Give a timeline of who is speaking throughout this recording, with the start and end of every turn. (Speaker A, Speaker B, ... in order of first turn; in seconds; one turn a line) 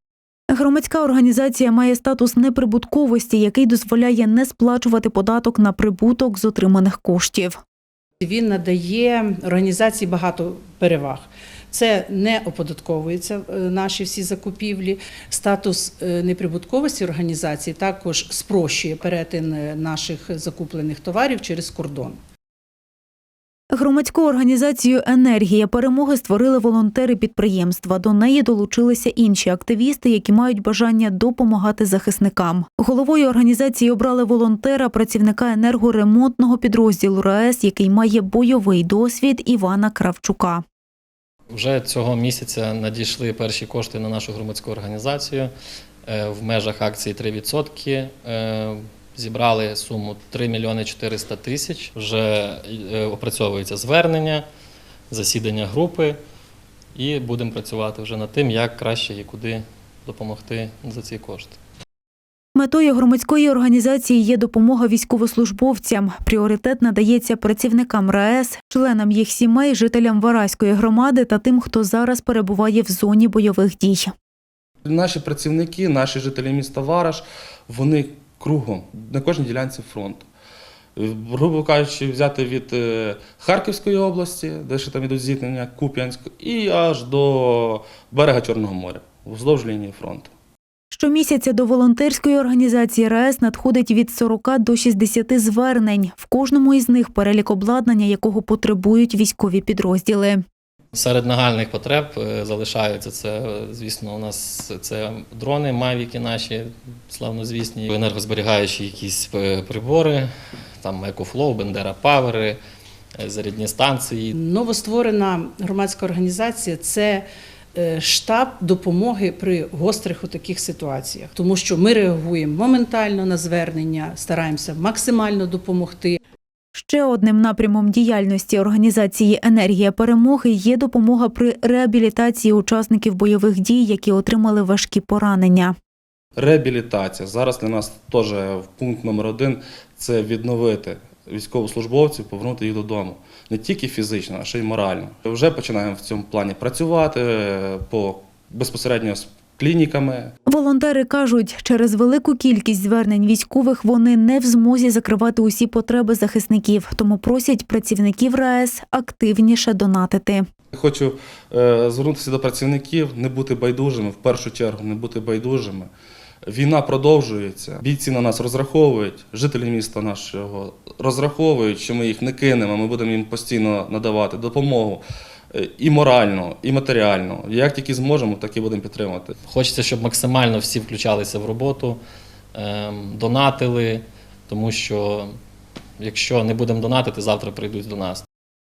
Speaker A: 0.5-7.6
Speaker B: 8.2-22.2
Speaker A: 23.7-40.6
Speaker C: 41.5-45.5
Speaker C: 46.1-54.4
Speaker C: 55.1-56.2
Speaker C: 56.9-61.6
Speaker A: 62.5-74.1
Speaker D: 74.8-80.3
Speaker D: 81.0-90.3
Speaker A: 90.9-100.4
Speaker C: 100.9-110.3
Speaker C: 110.8-112.6
Speaker C: 113.2-114.3
Speaker B: 114.3-126.2
Speaker A: 126.7-135.7
Speaker D: 136.3-150.3
Speaker A: 150.5-160.4
Speaker D: 160.7-165.9
Speaker D: 166.4-179.3
Speaker C: 179.5-182.0
Speaker C: 182.5-185.3
Speaker C: 186.0-188.2